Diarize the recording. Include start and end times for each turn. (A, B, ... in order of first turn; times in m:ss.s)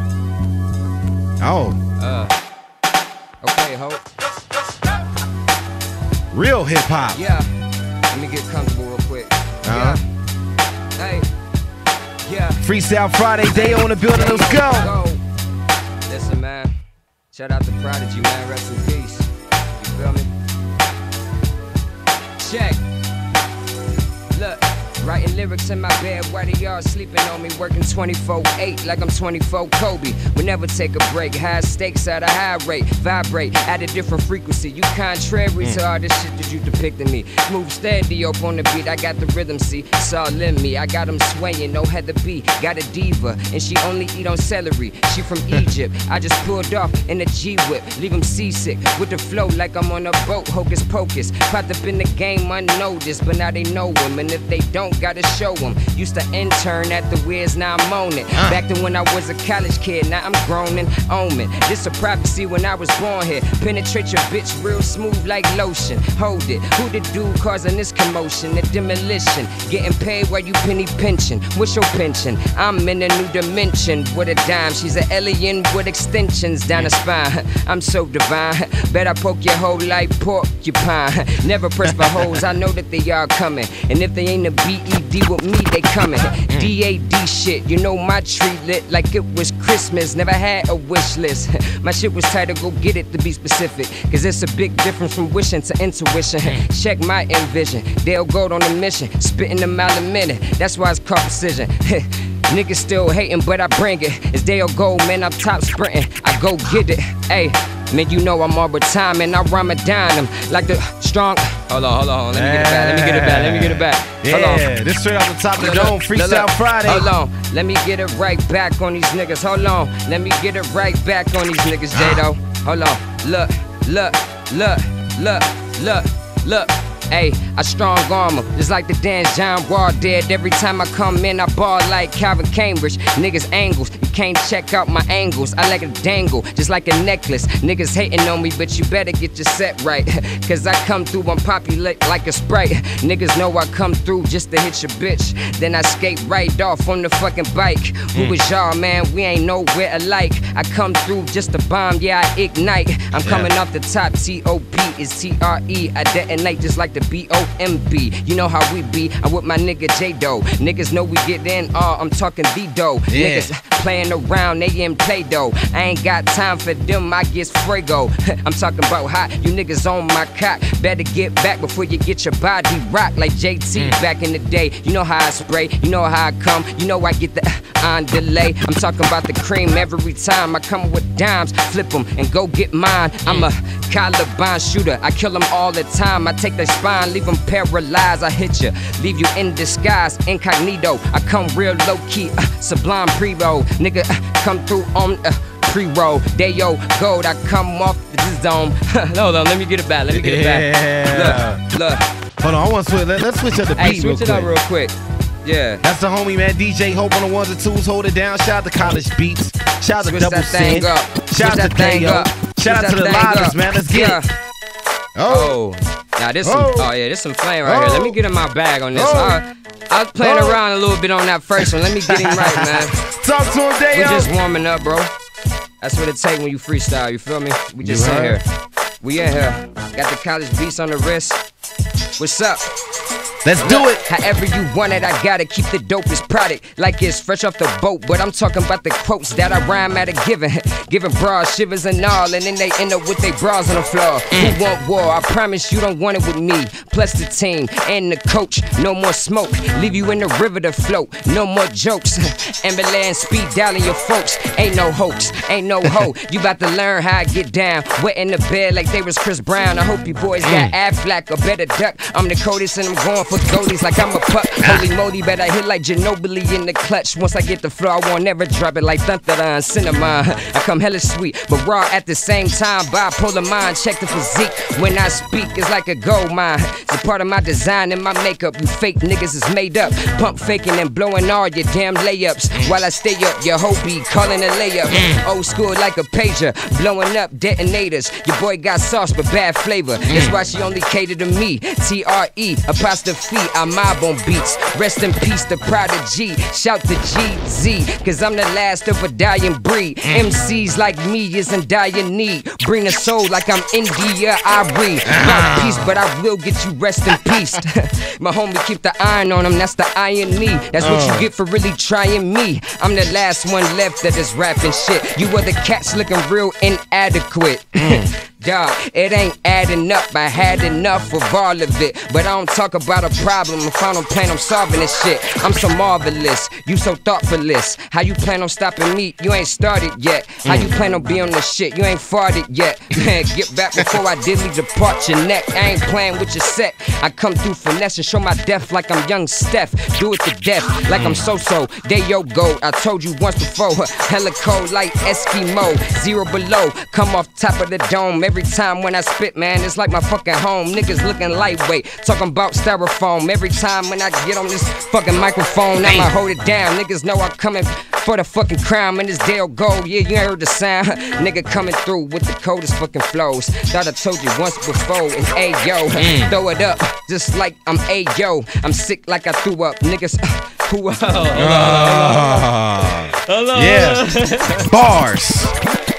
0:01.4-0:01.8 A
0:02.0-0:02.4 B
0:03.4-0:04.0 B
0:06.3-0:07.2 A
0:07.1-0:07.5 B
0:08.1-0:10.0 B
0:09.6-0:10.0 A
0:11.0-0:11.3 B
0:12.2-0:12.6 B
0:12.6-0:14.9 A
0:13.4-0:15.2 B
0:16.1-0:16.7 B
0:17.3-0:20.3 B
0:22.4-0:22.8 B
0:24.3-1:54.7 B
0:58.3-0:58.6 A
1:21.9-1:22.4 A
1:52.3-1:57.1 A
1:55.6-3:22.1 B
2:01.9-2:02.2 A
2:33.2-2:33.5 A
2:43.1-2:43.5 A
3:20.1-3:21.6 A
3:22.4-3:24.5 A
3:23.8-3:25.8 B
3:25.8-3:34.2 A
3:30.0-3:34.3 B
3:35.2-3:35.5 A
3:35.3-3:43.0 B
3:36.4-3:36.9 A
3:37.6-3:38.2 A
3:38.9-3:39.4 A
3:40.2-3:40.6 A
3:41.6-3:44.3 A
3:43.9-3:45.1 B
3:45.8-3:48.4 B
3:47.8-3:48.4 A
3:49.0-3:51.4 B
3:52.2-3:52.7 B
3:53.4-3:54.0 A
3:53.6-6:12.5 B
4:20.4-4:20.7 A
4:44.9-4:45.2 A
4:50.1-4:50.3 A
5:05.1-5:05.9 A
5:07.1-5:07.4 A
5:10.8-5:11.3 A
5:17.7-5:18.1 A
5:30.4-5:30.7 A
5:40.9-5:41.2 A
5:55.8-5:56.1 A
6:06.0-6:06.3 A
6:11.3-6:14.0 A
6:13.2-6:14.7 B
6:14.6-6:15.6 A